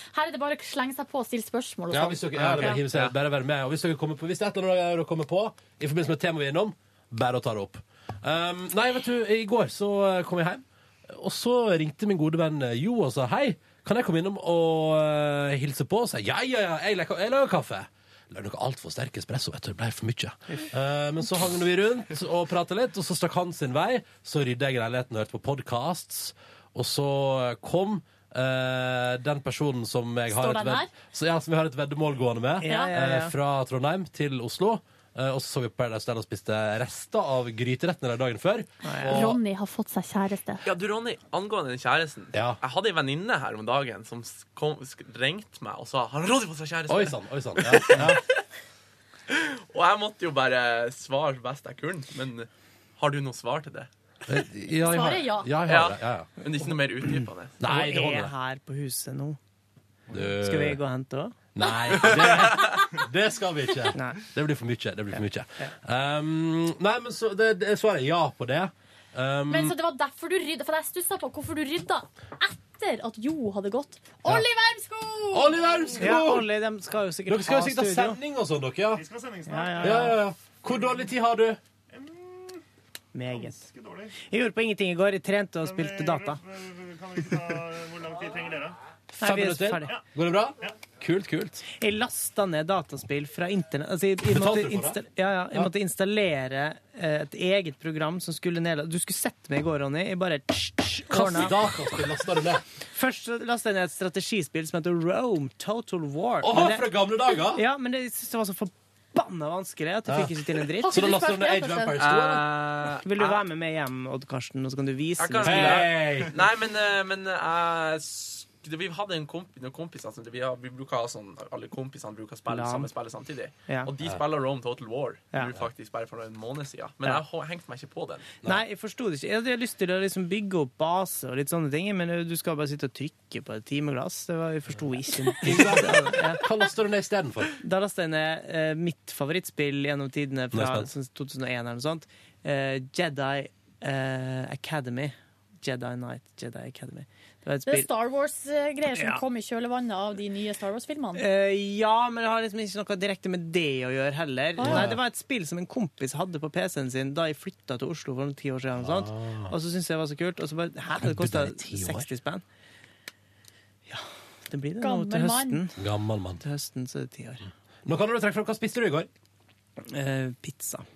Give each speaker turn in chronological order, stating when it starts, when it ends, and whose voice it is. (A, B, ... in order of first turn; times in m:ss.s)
0:00.1-0:02.8 A
0:01.9-0:39.4 B
0:30.3-0:30.9 A
0:32.6-0:33.3 C
0:32.6-0:32.9 A
0:38.8-0:39.3 C
0:39.1-0:40.6 A
0:40.6-0:48.4 D
0:42.3-0:42.6 B
0:46.9-0:48.2 B
0:49.3-0:53.9 D
0:54.3-0:56.3 B
0:54.8-0:55.5 A
0:55.7-0:57.6 D
0:57.6-0:58.3 B
0:57.6-0:59.4 C
1:00.1-1:01.4 C
1:00.1-1:00.8 B
1:01.6-1:09.8 B
1:04.0-1:04.2 C
1:09.5-1:15.6 A
1:15.3-1:16.5 B
1:16.0-1:18.2 C
1:17.3-1:19.0 B
1:18.9-1:21.1 E
1:19.5-1:20.2 C
1:19.8-1:21.6 B
1:21.9-1:22.6 E
1:23.1-1:23.7 C
1:23.3-1:24.1 E
1:24.2-1:26.4 C
1:25.6-1:28.8 E
1:29.2-1:30.0 C
1:29.2-1:31.6 B
1:31.8-1:41.8 C
1:34.2-1:35.0 B
1:41.1-1:42.6 B
1:42.9-1:46.9 C
1:46.4-1:47.6 B
1:47.5-1:51.0 C
1:50.1-1:52.5 B
1:50.8-1:52.0 A
1:52.0-1:53.4 D
1:53.0-1:55.9 C
1:55.2-2:08.3 D
1:55.4-1:56.3 B
2:02.5-2:02.9 C
2:08.4-2:16.4 C
2:15.4-2:17.5 B
2:17.6-2:27.9 C
2:20.5-2:20.9 B
2:27.7-2:31.2 A
2:29.0-2:29.2 C
2:31.2-2:42.4 C
2:34.6-2:34.9 A
2:34.6-2:35.0 B
2:38.8-2:39.5 B
2:41.0-2:42.1 B
2:43.9-2:45.8 C
2:44.8-2:45.6 A
2:45.8-2:46.4 B
2:46.4-2:47.5 C
2:47.9-2:49.1 B
2:49.8-2:50.9 C